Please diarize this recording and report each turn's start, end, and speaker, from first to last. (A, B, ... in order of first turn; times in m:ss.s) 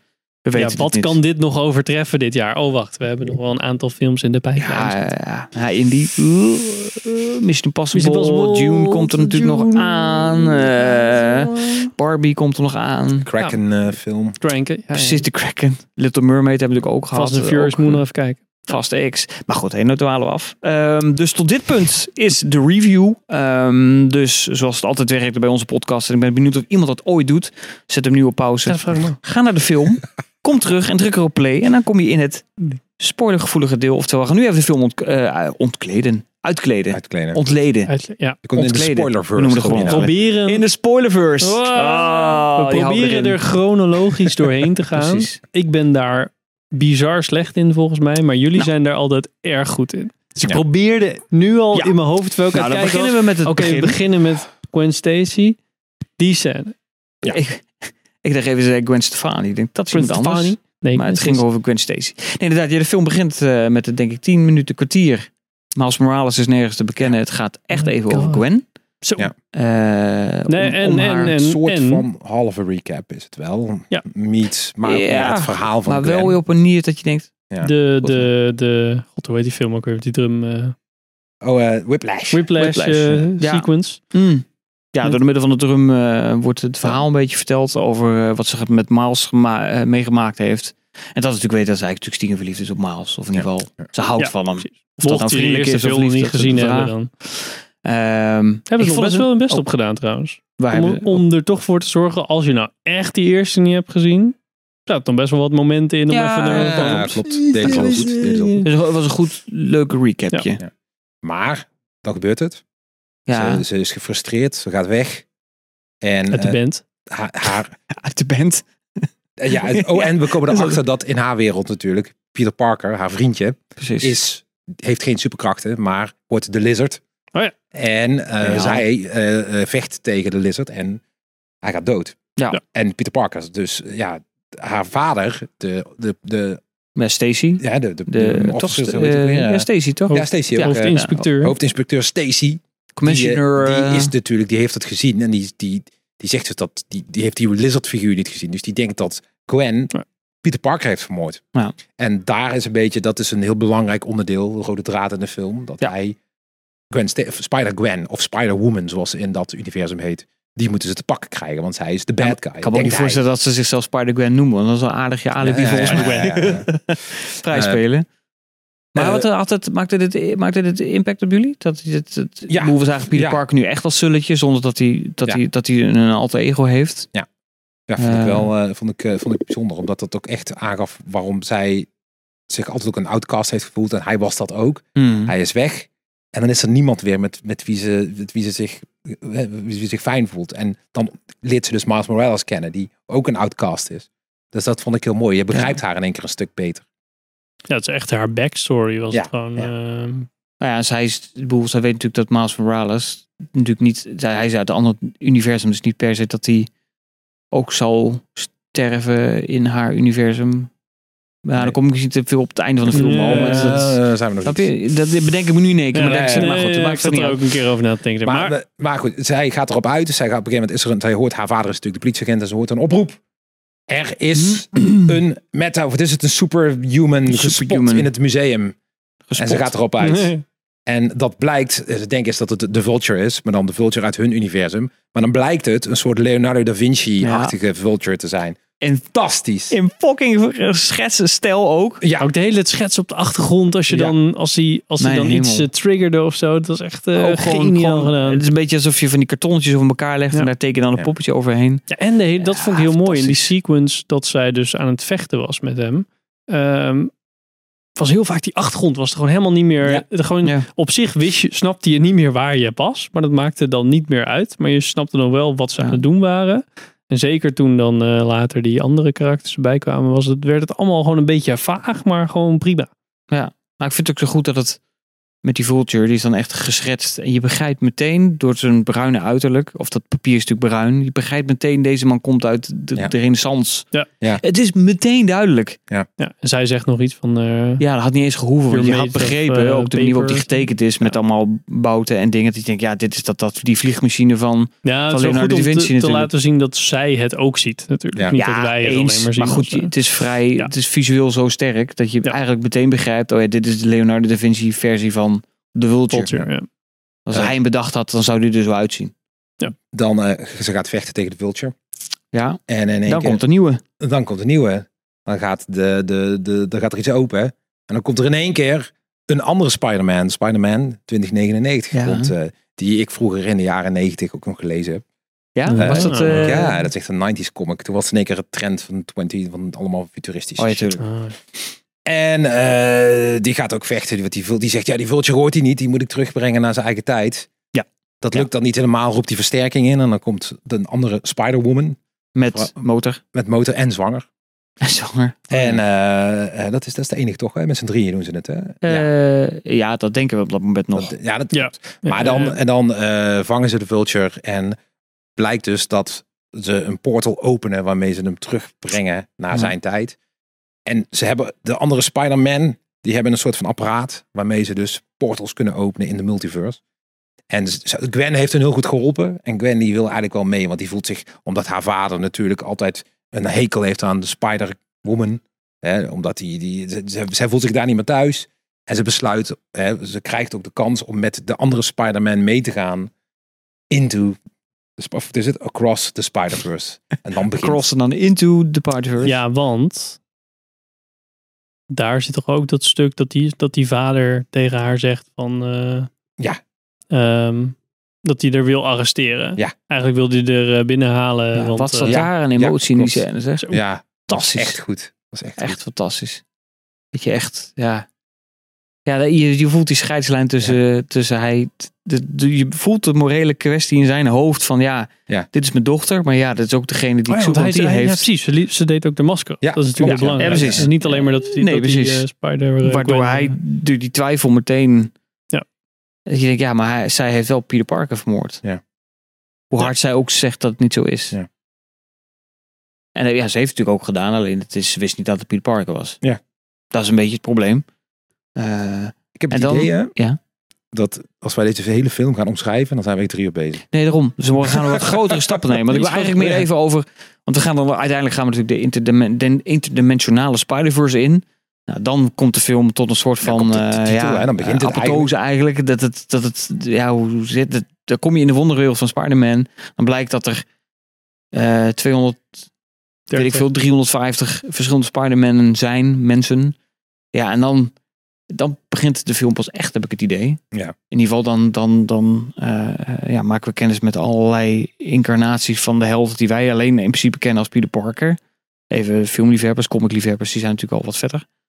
0:00.4-0:01.2 A
0:00.5-0:05.0 B
0:04.6-0:13.3 A
0:07.9-0:11.7 B
0:13.2-0:14.4 C
0:14.4-0:15.2 B
0:14.9-0:18.1 A
0:17.1-0:18.8 B
0:18.7-0:32.5 A
0:28.7-0:29.2 B
0:33.0-0:37.9 A
0:36.9-0:37.5 C
0:37.9-0:38.4 B
0:38.4-0:40.1 C
0:38.6-0:43.4 A
0:39.7-0:40.6 B
0:41.4-0:55.6 B
0:44.9-0:45.4 A
0:52.5-0:54.0 A
0:56.2-0:56.8 B
0:57.3-1:08.7 A
0:59.9-1:01.4 B
1:07.7-1:08.4 B
1:09.0-1:09.3 B
1:09.5-1:11.4 A
1:10.5-1:12.0 B
1:11.2-1:16.4 C
1:14.8-1:17.3 A
1:17.5-1:18.3 C
1:17.6-1:20.8 B
1:21.4-1:23.2 C
1:22.3-1:24.1 B
1:22.6-1:39.7 A
1:34.2-1:37.1 B
1:38.7-1:48.7 B
1:40.6-1:41.2 A
1:46.1-1:50.6 A
1:46.5-1:48.6 C
1:51.2-1:52.6 C
1:53.3-1:53.6 A
1:53.3-1:55.3 C
1:56.0-1:57.7 C
1:56.3-1:56.8 B
1:57.9-2:00.8 A
1:59.4-2:07.0 C
2:03.8-2:04.2 A
2:07.7-2:11.0 C
2:08.4-2:08.8 A
2:11.6-2:16.6 C
2:17.0-2:21.3 A
2:17.6-2:29.9 C
2:20.1-2:21.6 B
2:23.0-2:24.1 A
2:30.4-2:36.2 C
2:36.9-2:43.2 C
2:42.2-2:48.1 A
2:45.4-2:46.7 C
2:45.8-2:46.3 B
2:47.5-2:47.8 C
2:49.0-2:49.3 C
2:49.0-2:57.1 A
2:52.5-2:53.4 C
2:57.9-3:01.9 C
2:58.0-2:58.5 A
3:02.5-3:16.8 C
3:05.0-3:05.3 A
3:17.7-3:20.3 B
3:19.1-3:19.7 C
3:20.6-3:26.7 A
3:27.5-3:30.7 A
3:31.4-3:37.4 A
3:32.9-3:34.7 C
3:32.9-3:33.8 B
3:35.9-3:38.5 B
3:36.0-3:36.5 C
3:38.2-3:43.2 C
3:43.9-3:48.8 C
3:44.4-3:45.1 A
3:47.3-3:48.1 A
3:49.3-3:49.7 A
3:49.4-3:50.4 C
3:50.0-3:50.4 B
3:50.9-3:59.8 C
3:57.2-3:57.6 A
3:59.7-4:02.0 A
4:02.0-4:02.3 C
4:02.2-4:08.4 B
4:05.0-4:05.7 A
4:07.1-4:11.9 A
4:11.9-4:17.1 B
4:12.4-4:13.5 A
4:18.0-4:32.9 B
4:19.8-4:20.7 A
4:33.3-4:34.8 A
4:35.4-4:45.8 A
4:46.2-4:47.8 B
4:47.8-4:56.3 A
4:48.7-4:50.7 B
4:54.8-4:59.9 B
4:58.4-5:06.3 A
5:06.1-5:06.7 B
5:07.3-5:09.1 A
5:09.9-5:11.8 C
5:12.3-5:13.8 A
5:12.7-5:13.4 C
5:14.0-5:25.0 C
5:21.9-5:22.3 A
5:25.6-5:26.7 A
5:25.7-5:26.7 B
5:25.7-5:31.0 C
5:30.6-5:31.0 A
5:31.0-5:31.4 B
5:32.0-5:37.5 C
5:37.7-5:38.5 A
5:38.2-5:42.0 C
5:42.4-5:43.2 A
5:43.3-5:44.3 C
5:44.8-5:45.8 A
5:45.5-5:49.1 C
5:48.8-5:51.1 A
5:50.9-5:54.8 C
5:51.5-5:52.6 B
5:55.4-6:00.2 C
6:00.9-6:06.8 C
6:07.5-6:23.1 C
6:23.9-6:24.4 C
6:25.0-6:27.8 C
6:27.6-6:29.3 A
6:29.2-6:30.2 B
6:31.9-6:36.1 B
6:37.1-6:42.2 B
6:41.6-6:43.7 A
6:42.0-6:45.8 C
6:43.6-6:44.5 B
6:44.3-6:44.8 A
6:45.6-6:46.4 A
6:47.1-6:48.1 A
6:49.1-6:58.3 A
6:57.3-6:57.7 C
6:57.5-7:03.6 B
6:59.6-7:00.8 C
7:00.0-7:02.3 A
7:02.8-7:05.1 A
7:06.3-7:08.6 A
7:09.7-7:11.4 A
7:13.2-7:16.2 A
7:16.9-7:17.9 A
7:18.6-7:20.4 A
7:19.4-7:20.1 C
7:20.9-7:23.8 C
7:23.9-7:40.6 A
7:24.6-7:26.7 C
7:33.4-7:35.3 C
7:41.5-7:42.6 A
7:43.3-7:43.7 B
7:43.3-7:46.8 A
7:47.3-7:47.9 A
7:48.5-7:58.4 A
7:58.9-8:01.5 A